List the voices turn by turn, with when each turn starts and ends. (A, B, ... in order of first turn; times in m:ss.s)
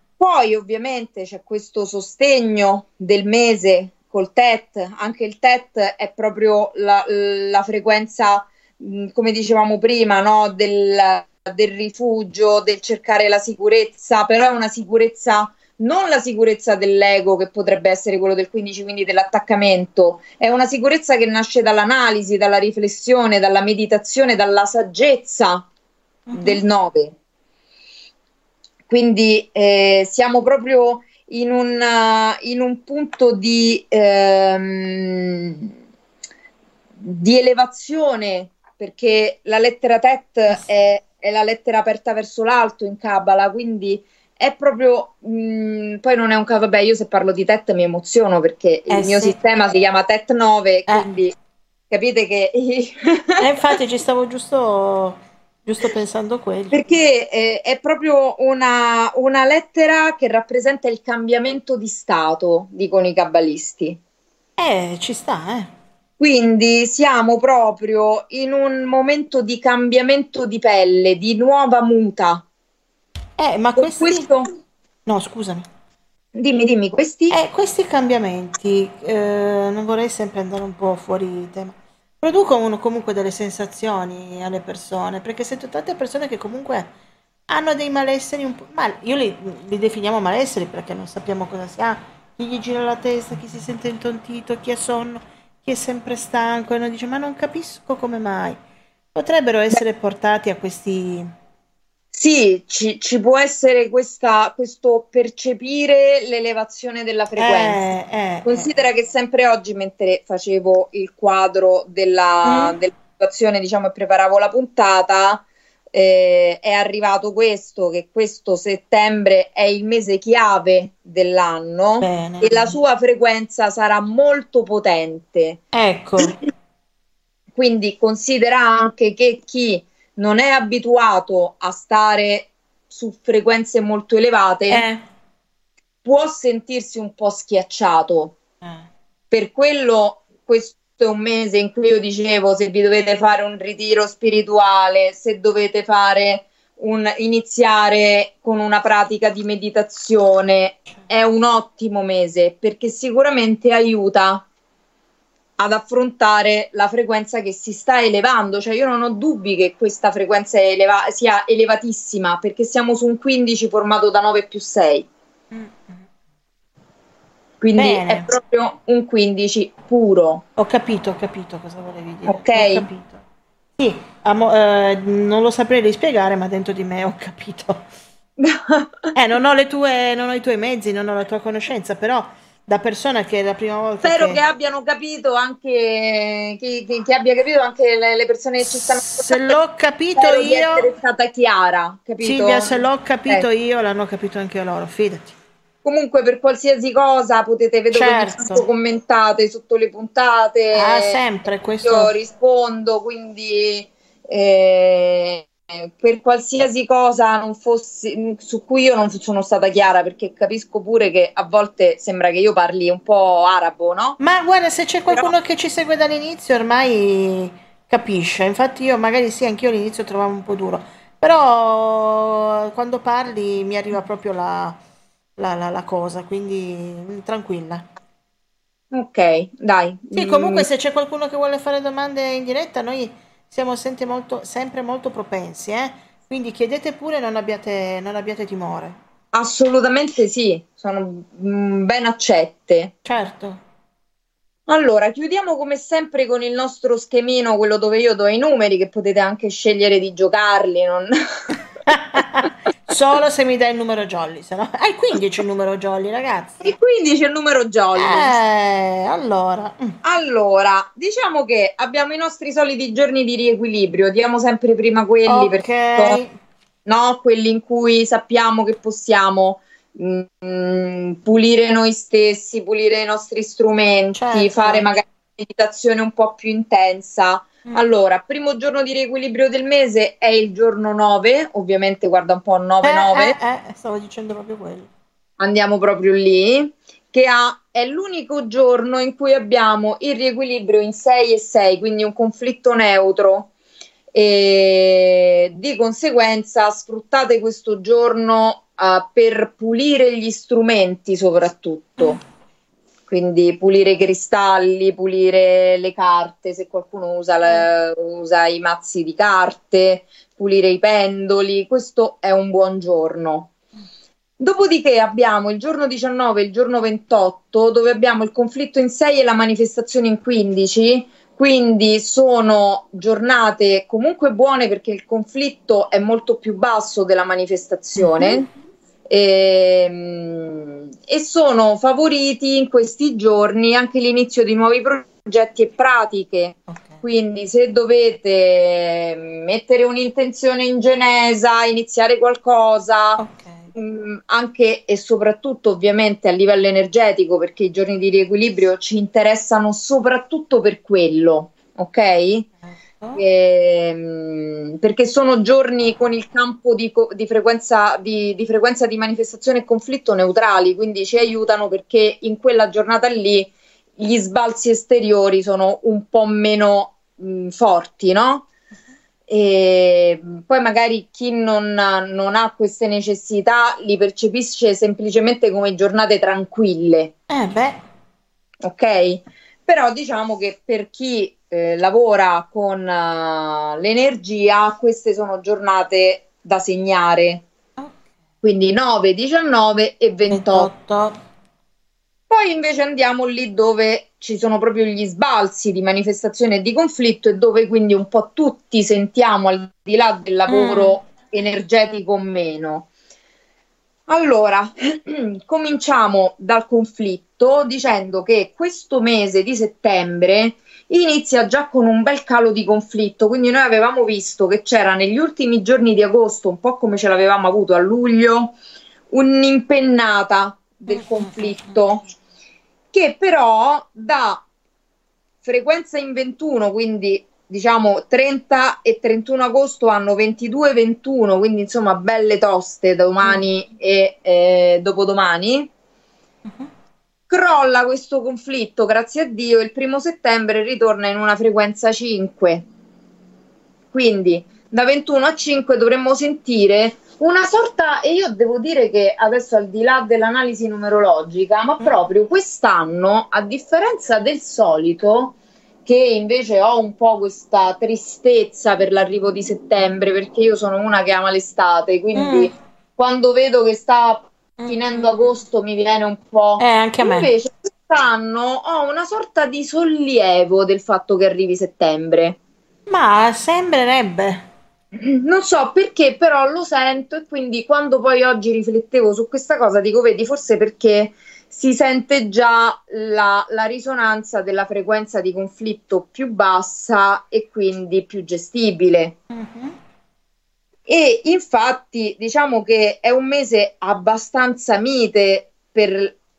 0:00.2-0:25.7 A
0:26.3-0:26.6 B
0:26.4-0:27.2 A
0:28.9-0:35.7 A
0:37.0-0:51.3 A
0:48.9-0:49.4 B
0:51.9-0:53.4 A
0:53.4-0:57.0 B
0:56.7-1:04.0 A
1:04.6-1:05.7 B
1:06.2-1:12.4 A
1:13.4-1:14.2 B
1:13.8-1:14.5 A
1:15.1-1:15.7 B
1:16.4-1:17.4 A
1:17.3-1:26.9 B
1:27.5-1:38.6 B
1:39.1-1:41.3 B
1:42.1-1:47.9 A
1:47.4-1:48.7 B
1:48.4-2:05.6 A
1:52.4-1:52.8 B
2:02.0-2:02.7 B
2:05.7-2:06.4 B
2:07.6-2:14.8 A
2:14.7-2:15.0 B
2:16.0-2:18.4 A
2:19.3-2:34.5 A
2:35.6-2:45.1 A
2:45.5-2:46.0 B
2:47.6-2:50.4 A
2:47.8-2:48.3 B
2:50.6-2:53.2 B
2:52.3-2:52.9 A
2:53.8-2:57.8 B
2:58.4-2:59.1 A
2:59.2-3:04.4 B
3:04.0-3:09.6 A
3:08.6-3:10.9 B
3:10.2-3:13.4 A
3:12.2-3:15.3 B
3:15.8-3:21.2 A
3:17.9-3:18.6 B
3:20.7-3:22.1 B
3:21.8-3:34.2 A
3:34.2-3:44.8 B
3:45.4-3:47.8 B
3:48.9-3:50.7 A
3:50.2-3:59.0 B
3:59.3-4:02.9 A
4:03.0-4:03.6 B
4:04.7-4:11.1 A
4:11.9-4:16.7 B
4:16.6-4:18.4 A
4:18.0-4:20.0 B
4:20.0-4:26.2 A
4:25.3-4:26.3 B
4:26.9-4:43.4 A
4:34.2-4:34.9 B
4:42.8-4:44.9 B
4:45.4-4:53.5 A
4:54.1-5:02.2 A
5:03.1-5:13.5 A
5:14.4-5:28.5 A
5:28.0-5:28.4 B
5:29.1-5:43.2 A
5:43.2-5:43.6 B
5:43.7-5:52.5 A
5:53.2-6:08.5 A
6:09.3-6:17.1 A
6:17.3-6:17.8 B
6:18.6-6:27.4 A
6:28.4-6:30.7 A
6:30.3-6:31.2 B
6:32.3-6:42.9 A
6:40.5-6:41.0 B
6:44.1-6:58.6 A
6:59.1-7:02.0 A
7:00.9-7:01.8 B
7:02.9-7:04.4 A
7:05.4-7:15.7 A
7:17.3-7:22.6 A
7:23.9-7:52.4 A
7:42.2-7:42.5 B
7:44.6-7:45.1 B
7:46.6-7:47.3 B
7:52.9-7:54.5 B
7:55.0-8:09.2 A
8:09.3-8:09.8 B
8:10.9-8:16.2 A